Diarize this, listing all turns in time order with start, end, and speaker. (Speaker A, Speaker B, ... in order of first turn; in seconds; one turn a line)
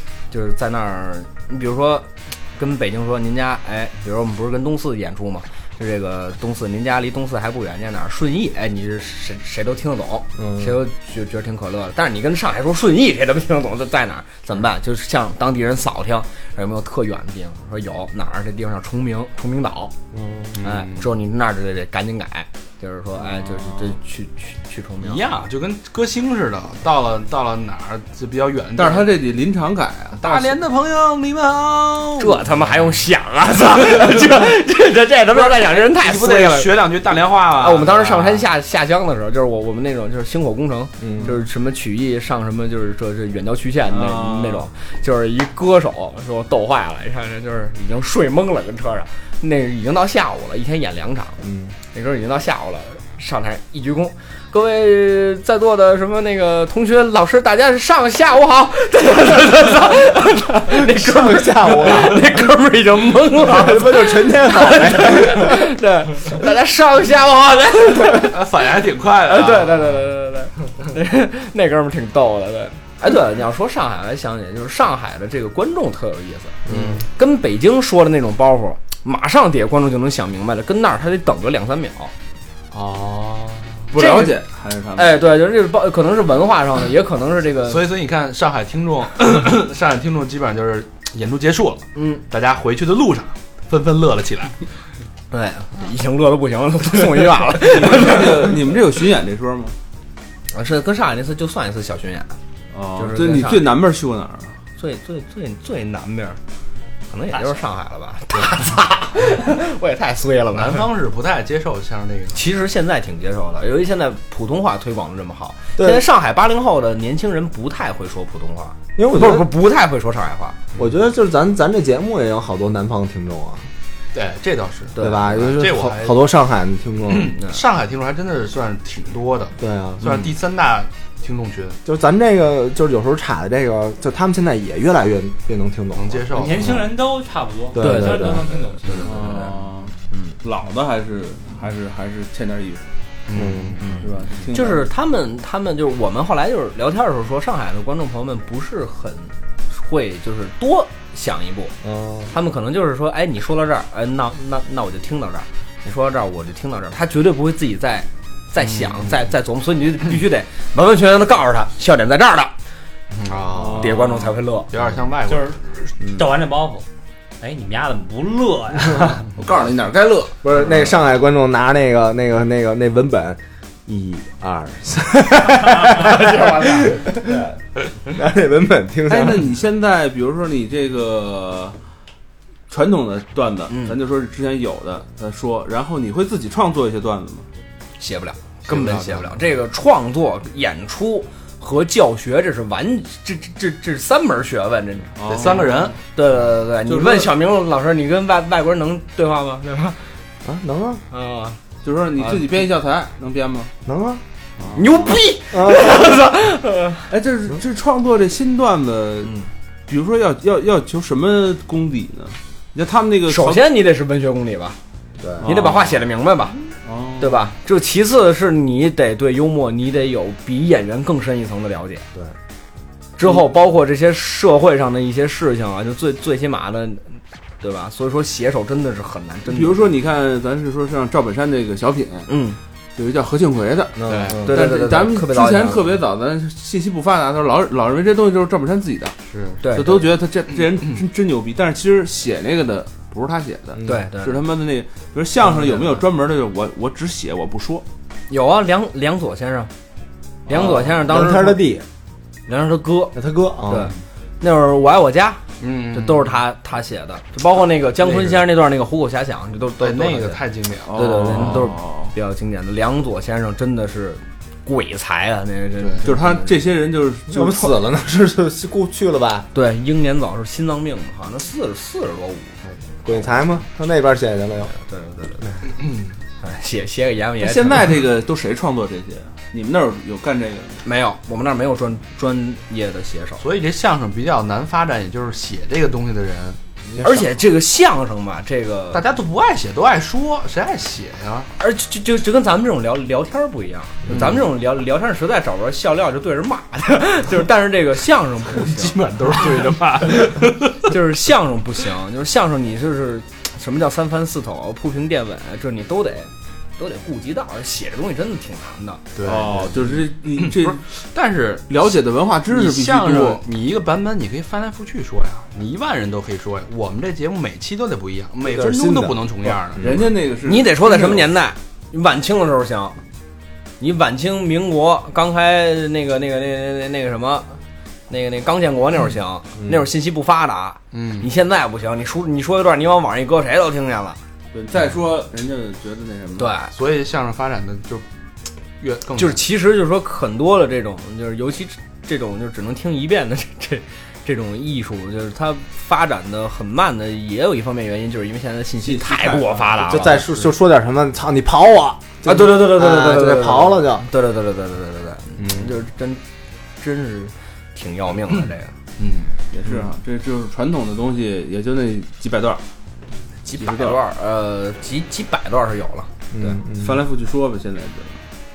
Speaker A: 0.3-19.9
Speaker B: 10.4-10.7
Speaker B: 20.1-20.6
Speaker C: 20.6-21.1
Speaker A: 20.6-25.2
Speaker D: 23.2-23.9
Speaker C: 25.0-29.1
Speaker D: 28.8-30.6
Speaker C: 30.1-32.5
Speaker A: 32.2-36.9
Speaker C: 35.3-38.5
Speaker A: 37.5-51.4
Speaker B: 41.0-41.3
Speaker D: 43.9-44.7
Speaker B: 51.4-51.7
Speaker A: 51.9-68.5
Speaker B: 60.7-62.3
Speaker B: 63.3-65.7
Speaker C: 68.1-69.9
Speaker A: 69.2-82.1
Speaker C: 76.7-77.0
Speaker B: 76.7-77.0
Speaker C: 82.7-83.9
Speaker D: 83.9-85.2
Speaker A: 83.9-84.4
Speaker A: 84.9-87.8
Speaker C: 87.7-94.6
Speaker A: 91.9-92.2
Speaker A: 95.3-98.5
Speaker D: 97.5-99.7
Speaker A: 100.5-102.4
Speaker D: 102.7-104.5
Speaker A: 103.0-103.7
Speaker A: 104.8-106.4
Speaker A: 107.1-110.9
Speaker C: 110.5-112.4
Speaker A: 112.3-120.6
Speaker B: 115.8-116.0
Speaker B: 119.0-119.5
Speaker B: 120.8-123.7
Speaker C: 124.1-126.2
Speaker A: 125.0-125.4
Speaker B: 125.0-127.3
Speaker C: 127.1-131.8
Speaker B: 129.6-130.2
Speaker B: 131.8-136.8
Speaker C: 135.9-136.8
Speaker E: 136.3-139.4
Speaker B: 137.7-138.5
Speaker A: 137.8-139.1
Speaker C: 138.8-139.3
Speaker D: 139.0-142.9
Speaker A: 140.1-140.3
Speaker C: 143.2-143.9
Speaker B: 143.3-143.8
Speaker A: 143.8-151.7
Speaker D: 144.0-144.9
Speaker B: 151.8-152.3
Speaker A: 152.3-162.5
Speaker C: 158.6-159.2
Speaker C: 163.1-165.6
Speaker D: 163.5-164.0
Speaker A: 163.8-164.7
Speaker E: 165.3-166.8
Speaker E: 167.4-169.2
Speaker D: 169.3-170.4
Speaker B: 170.4-177.5
Speaker E: 175.8-177.0
Speaker B: 178.1-179.5
Speaker D: 179.1-181.8
Speaker D: 182.7-187.4
Speaker A: 183.7-184.0
Speaker A: 188.0-195.6
Speaker C: 188.7-189.4
Speaker D: 195.2-196.0
Speaker C: 195.3-195.9
Speaker A: 196.1-200.0
Speaker D: 196.8-197.3
Speaker B: 200.4-201.0
Speaker A: 201.1-201.6
Speaker D: 201.8-203.7
Speaker A: 202.2-202.4
Speaker B: 203.8-204.2
Speaker D: 204.6-205.2
Speaker A: 204.7-207.1
Speaker B: 205.5-205.9
Speaker D: 207.1-209.3
Speaker A: 209.2-209.5
Speaker D: 209.9-213.7
Speaker A: 213.3-214.8
Speaker B: 215.2-215.4
Speaker D: 215.4-216.1
Speaker A: 215.4-216.6
Speaker D: 216.8-217.5
Speaker A: 217.2-222.1
Speaker A: 223.2-229.8
Speaker D: 229.4-232.3
Speaker A: 232.3-232.6
Speaker D: 232.9-239.2
Speaker B: 233.9-234.6
Speaker C: 234.1-234.5
Speaker A: 234.4-236.0
Speaker C: 239.3-239.9
Speaker A: 239.6-240.1
Speaker D: 239.7-247.8
Speaker C: 240.5-241.0
Speaker A: 243.8-244.4
Speaker A: 248.3-249.7
Speaker A: 250.5-251.6
Speaker D: 250.5-250.9
Speaker B: 250.9-251.8
Speaker A: 252.5-260.4
Speaker B: 253.1-253.9
Speaker C: 255.6-256.4
Speaker C: 259.8-261.1
Speaker D: 260.9-262.1
Speaker A: 260.9-266.6
Speaker C: 265.8-266.0
Speaker D: 266.0-267.7
Speaker B: 267.3-269.5
Speaker A: 269.5-272.6
Speaker B: 273.0-274.7
Speaker A: 274.7-275.5
Speaker C: 275.8-276.1
Speaker A: 276.4-277.8
Speaker D: 277.4-280.8
Speaker A: 280.8-283.4
Speaker C: 283.4-287.3
Speaker A: 287.0-289.0
Speaker C: 288.9-291.5
Speaker A: 291.6-299.0
Speaker C: 294.1-294.4
Speaker C: 298.5-300.9
Speaker A: 300.9-309.0
Speaker C: 309.1-311.8
Speaker D: 309.2-310.8
Speaker D: 311.7-313.4
Speaker C: 312.5-320.1
Speaker B: 318.4-319.5
Speaker D: 319.8-321.3
Speaker A: 320.4-323.0
Speaker A: 323.8-327.6
Speaker A: 328.1-334.2
Speaker C: 330.9-331.3
Speaker D: 334.5-336.6
Speaker A: 336.4-336.7
Speaker C: 336.7-338.0
Speaker C: 338.8-339.4
Speaker A: 339.1-350.4
Speaker D: 348.8-350.0
Speaker B: 349.8-354.0
Speaker A: 352.2-356.2
Speaker A: 356.8-358.7
Speaker C: 359.0-359.3
Speaker D: 359.5-362.6
Speaker A: 363.4-366.6
Speaker D: 363.5-364.0
Speaker B: 366.3-367.0
Speaker D: 366.7-368.2